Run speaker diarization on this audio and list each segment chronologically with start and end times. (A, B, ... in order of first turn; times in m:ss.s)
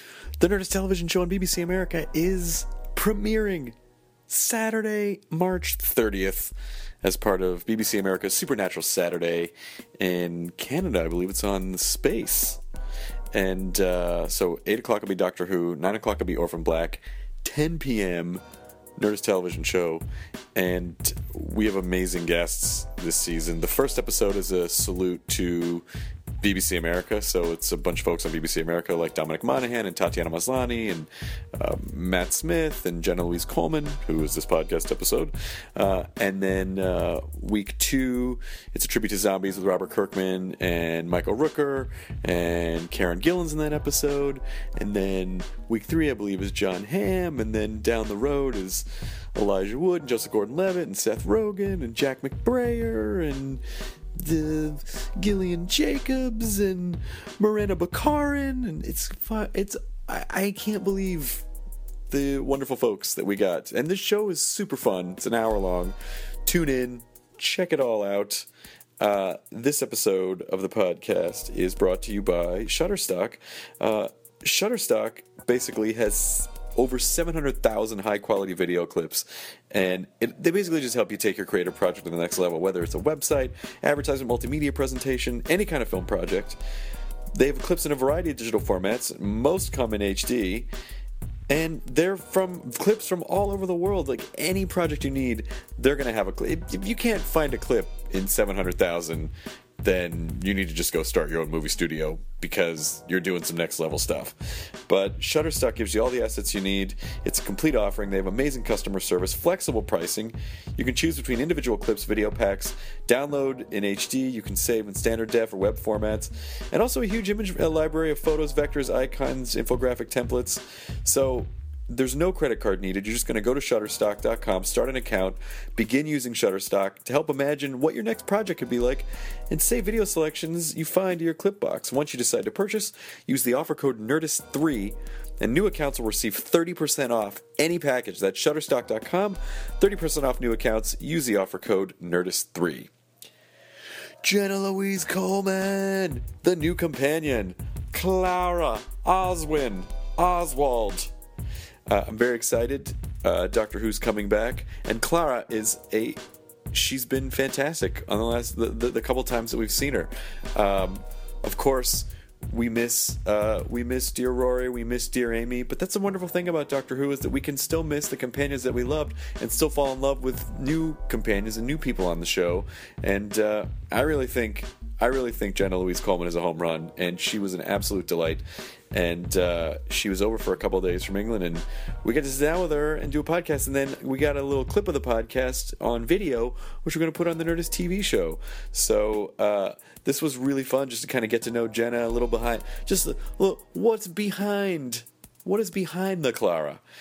0:00.4-0:03.7 A
0:04.3-0:06.5 A
0:07.0-0:09.5 A
0:10.0-0:12.6 A
0:13.4-0:18.4 A
0:19.0-0:20.0 A
0:20.6-0:25.8 A
0:26.4-0:31.1 A
0:31.6-0:48.8 A
0:49.4-0:53.6 A
0:54.2-1:01.4 A
1:02.1-1:05.9 A
1:06.5-1:08.4 A
1:09.0-1:26.6 A
1:27.4-1:30.7 A
1:31.5-1:39.3 A
1:39.8-1:44.3 A
1:44.9-2:22.9 A
2:24.2-2:31.0 A
2:31.9-2:36.1 A
2:36.7-2:58.4 A
2:58.9-3:16.8 A